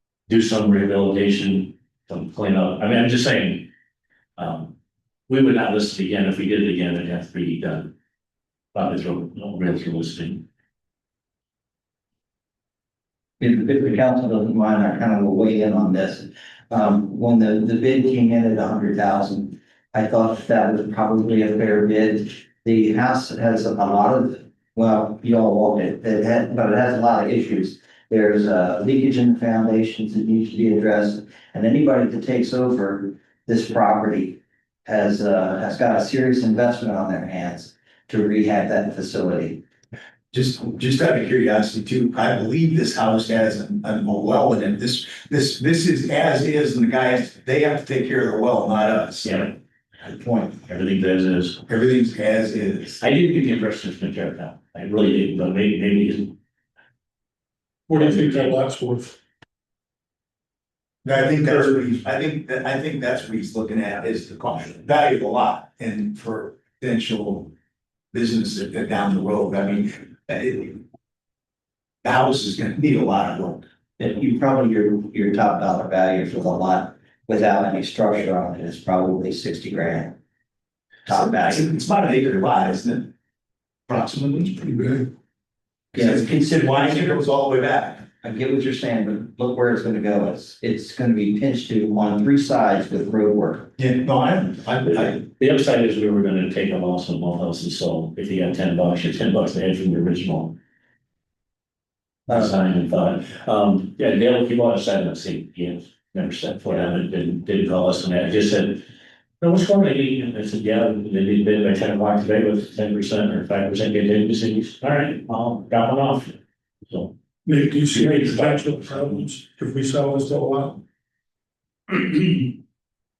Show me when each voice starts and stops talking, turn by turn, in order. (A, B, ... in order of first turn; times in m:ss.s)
0:00.3-0:03.7 A
0:04.4-0:04.7 A
0:05.3-0:07.9 A
0:08.7-0:10.4 A
0:13.4-0:39.6 B
0:40.3-0:49.4 C
0:49.2-0:49.5 A
0:50.0-0:50.6 C
0:50.6-0:51.6 A
0:51.7-0:53.0 C
0:53.0-0:56.3 A
0:57.9-0:59.2 D
0:58.0-0:58.5 A
1:01.0-1:07.5 C
1:01.3-1:01.7 D
1:08.1-1:10.8 C
1:12.0-1:13.6 C
1:14.0-1:20.2 B
1:21.1-1:21.7 B
1:21.1-1:23.1 C
1:23.9-1:25.1 C
1:25.9-1:28.0 C
1:25.9-1:27.2 B
1:28.2-1:33.7 B
1:33.8-1:35.2 C
1:35.1-1:40.6 A
1:42.3-1:48.8 A
1:49.4-1:56.4 A
1:56.9-1:57.1 A
1:57.4-2:00.8 D
1:57.9-1:58.9 A
2:01.9-2:02.5 D